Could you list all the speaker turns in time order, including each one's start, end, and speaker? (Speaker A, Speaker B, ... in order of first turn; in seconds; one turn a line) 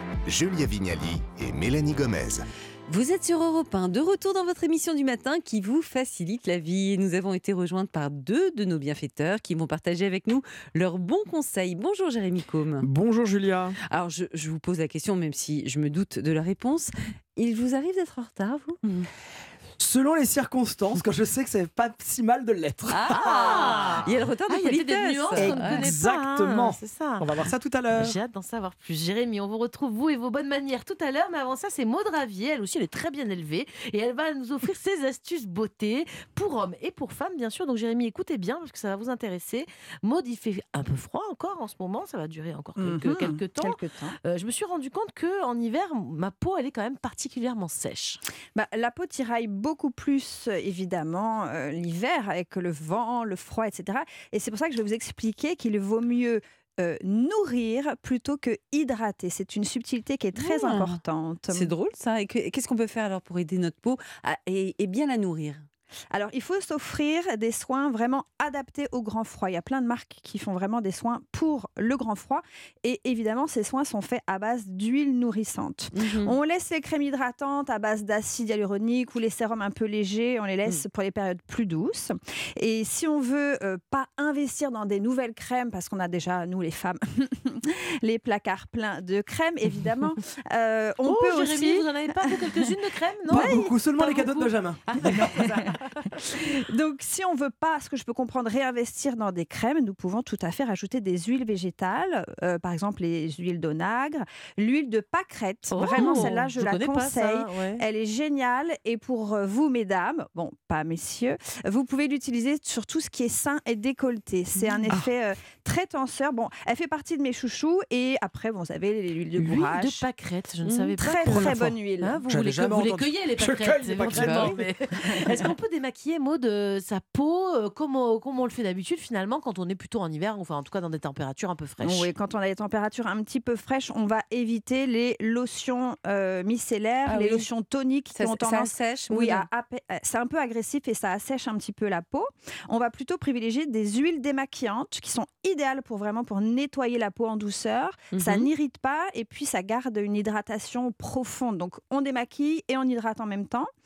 Speaker A: 0.2-2.5
Speaker B: 2.9-12.9
Speaker C: 12.8-13.8
Speaker B: 13.9-19.0
Speaker C: 19.8-23.2
Speaker B: 22.9-25.9
Speaker D: 23.1-48.2
Speaker C: 25.3-28.2
Speaker E: 42.8-44.2
Speaker E: 48.5-61.7
Speaker B: 60.4-65.6
Speaker E: 66.1-92.3
Speaker B: 75.9-76.3
Speaker D: 91.0-95.9
Speaker E: 93.3-93.7
Speaker C: 93.3-95.4
Speaker E: 95.0-95.5
Speaker E: 96.1-120.0
Speaker D: 105.7-107.8
Speaker D: 114.5-115.0
Speaker D: 119.4-132.1
Speaker B: 120.6-121.5
Speaker E: 121.0-122.2
Speaker C: 121.4-121.7
Speaker C: 122.3-124.7
Speaker B: 124.1-124.6
Speaker E: 131.8-153.7
Speaker B: 137.0-137.4
Speaker B: 138.1-139.5
Speaker B: 148.1-148.5